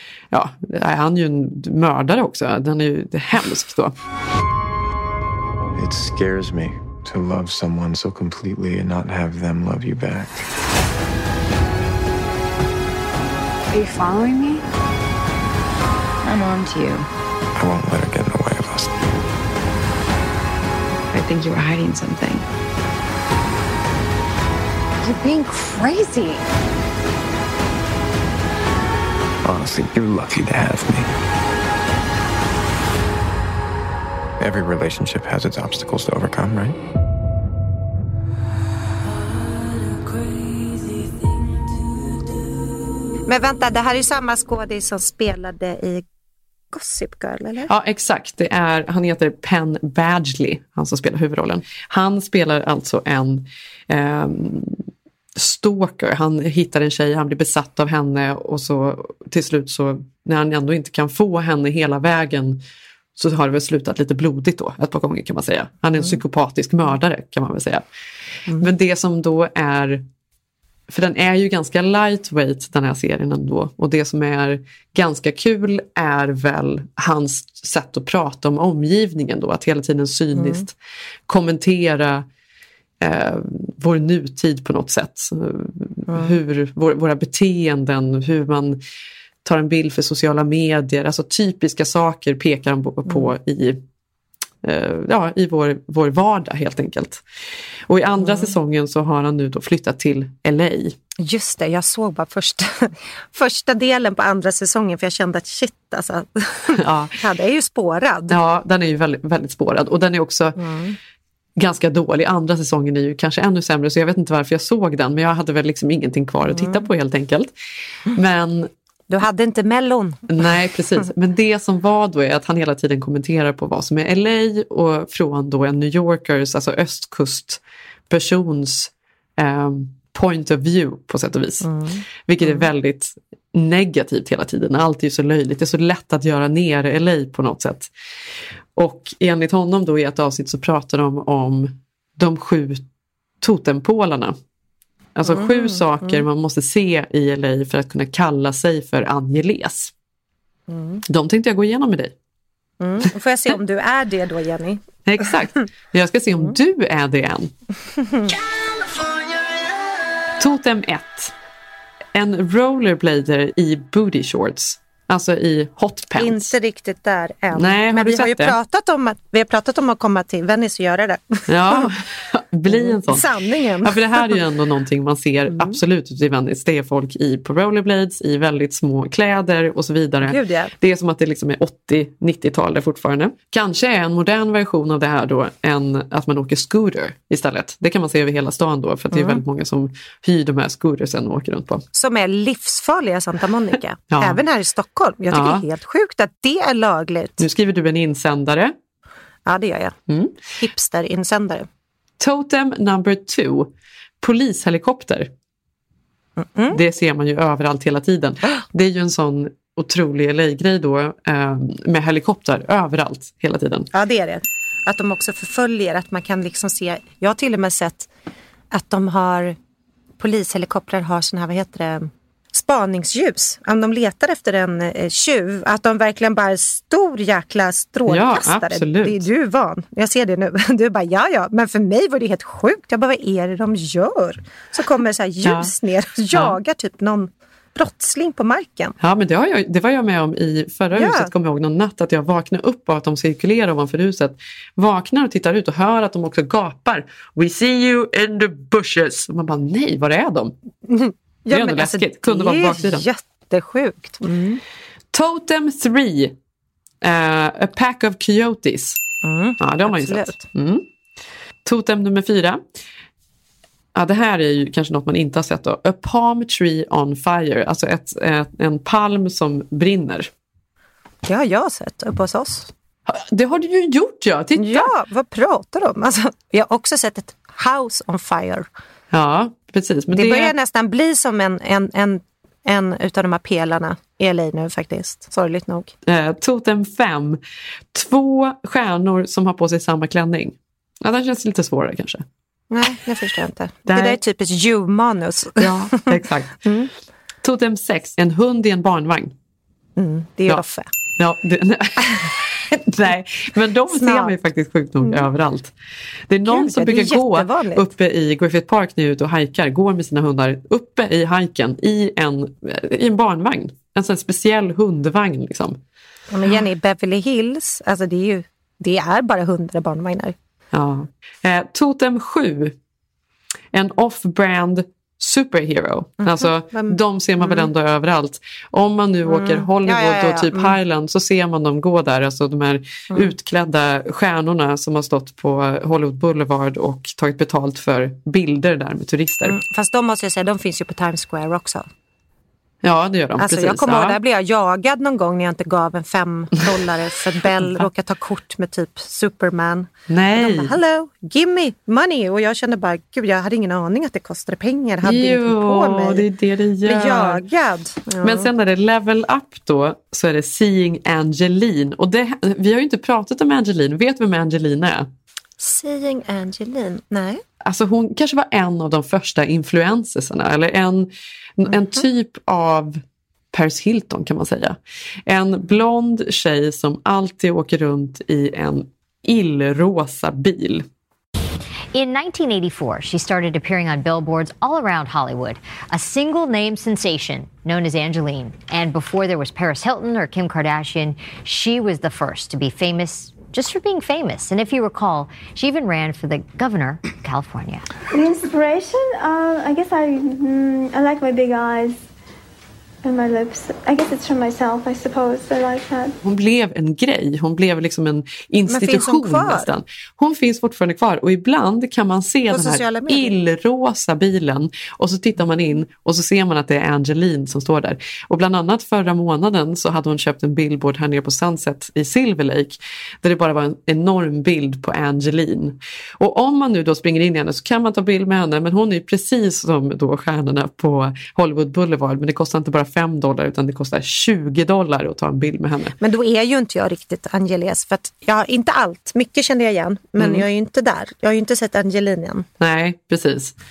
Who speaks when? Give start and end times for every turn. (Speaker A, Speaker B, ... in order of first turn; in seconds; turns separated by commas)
Speaker A: 0.3-4.0, Speaker B: 5.8-10.4, Speaker C: 13.7-14.6, Speaker C: 16.2-17.1, Speaker B: 17.6-18.9, Speaker C: 21.1-22.4, Speaker C: 25.0-26.4, Speaker B: 29.4-31.1, Speaker B: 34.4-36.8, Speaker D: 43.3-46.0, Speaker D: 46.7-47.7, Speaker A: 47.7-54.8, Speaker A: 55.4-62.6, Speaker A: 63.1-67.8, Speaker A: 68.5-70.0, Speaker A: 70.9-80.7, Speaker D: 80.3-80.6, Speaker A: 81.3-82.2, Speaker A: 83.0-88.8, Speaker D: 86.1-86.3, Speaker A: 89.4-93.8, Speaker A: 94.6-97.2, Speaker A: 97.9-101.0, Speaker D: 98.2-98.5, Speaker D: 101.2-108.4, Speaker A: 106.8-107.1, Speaker A: 108.3-110.6, Speaker D: 110.6-111.0, Speaker A: 111.6-117.5, Speaker D: 116.5-116.9, Speaker A: 118.1-118.7, Speaker D: 119.1-120.3, Speaker A: 120.3-131.7, Speaker D: 131.6-132.7, Speaker A: 132.2-137.9, Speaker A: 138.7-142.8, Speaker A: 143.4-144.3, Speaker A: 145.1-149.9, Speaker D: 145.2-146.2, Speaker D: 150.7-151.0, Speaker A: 151.1-152.1, Speaker D: 152.8-154.8, Speaker A: 155.0-157.5, Speaker D: 158.0-158.3, Speaker A: 160.4-161.3, Speaker A: 162.1-166.5, Speaker D: 166.2-171.9, Speaker A: 167.5-168.6, Speaker A: 171.5-173.3, Speaker D: 172.7-174.4, Speaker A: 173.8-191.8, Speaker D: 175.5-175.8, Speaker D: 180.2-180.7, Speaker D: 189.1-189.4, Speaker D: 191.9-197.4, Speaker A: 194.1-194.4, Speaker A: 195.3-195.6, Speaker A: 197.4-198.7, Speaker D: 199.4-199.9, Speaker A: 200.1-200.4, Speaker D: 200.6-201.7, Speaker A: 202.2-205.3, Speaker D: 206.4-206.8, Speaker A: 206.7-213.9, Speaker D: 213.9-218.1, Speaker D: 218.7-219.6, Speaker D: 220.2-238.9, Speaker A: 228.1-229.2, Speaker A: 235.4-235.7, Speaker A: 239.0-250.5, Speaker D: 240.9-241.3, Speaker D: 250.9-254.6, Speaker A: 251.5-253.1, Speaker A: 255.1-256.3, Speaker A: 257.0-259.0, Speaker D: 259.2-260.4, Speaker A: 259.6-260.9, Speaker A: 261.6-262.6, Speaker A: 263.9-270.3, Speaker D: 271.2-272.7, Speaker A: 273.1-274.9, Speaker D: 274.6-278.6, Speaker A: 279.1-280.5, Speaker D: 280.1-285.9, Speaker A: 286.0-287.4, Speaker A: 287.9-292.2, Speaker D: 292.7-296.1, Speaker A: 293.9-294.2, Speaker A: 295.6-296.6, Speaker D: 296.6-296.9, Speaker A: 297.4-299.3, Speaker D: 300.0-300.9, Speaker A: 301.2-305.7, Speaker D: 303.9-304.3, Speaker A: 306.3-315.8, Speaker D: 306.4-307.9, Speaker D: 316.3-320.3, Speaker A: 320.7-322.7, Speaker A: 323.7-339.6, Speaker D: 326.2-327.7, Speaker D: 329.3-330.7, Speaker D: 339.4-341.9, Speaker A: 342.8-344.1, Speaker D: 343.4-356.2, Speaker A: 347.6-347.9, Speaker A: 350.1-350.7, Speaker A: 355.0-357.4, Speaker D: 356.8-358.5, Speaker A: 358.2-365.1, Speaker D: 365.6-367.4, Speaker A: 367.6-380.9, Speaker E: 381.9-397.9, Speaker F: 398.1-402.0, Speaker F: 403.0-406.2, Speaker A: 406.2-435.9, Speaker D: 408.7-409.7, Speaker D: 412.5-413.3, Speaker D: 436.0-442.5, Speaker A: 440.2-440.4, Speaker A: 442.6-443.5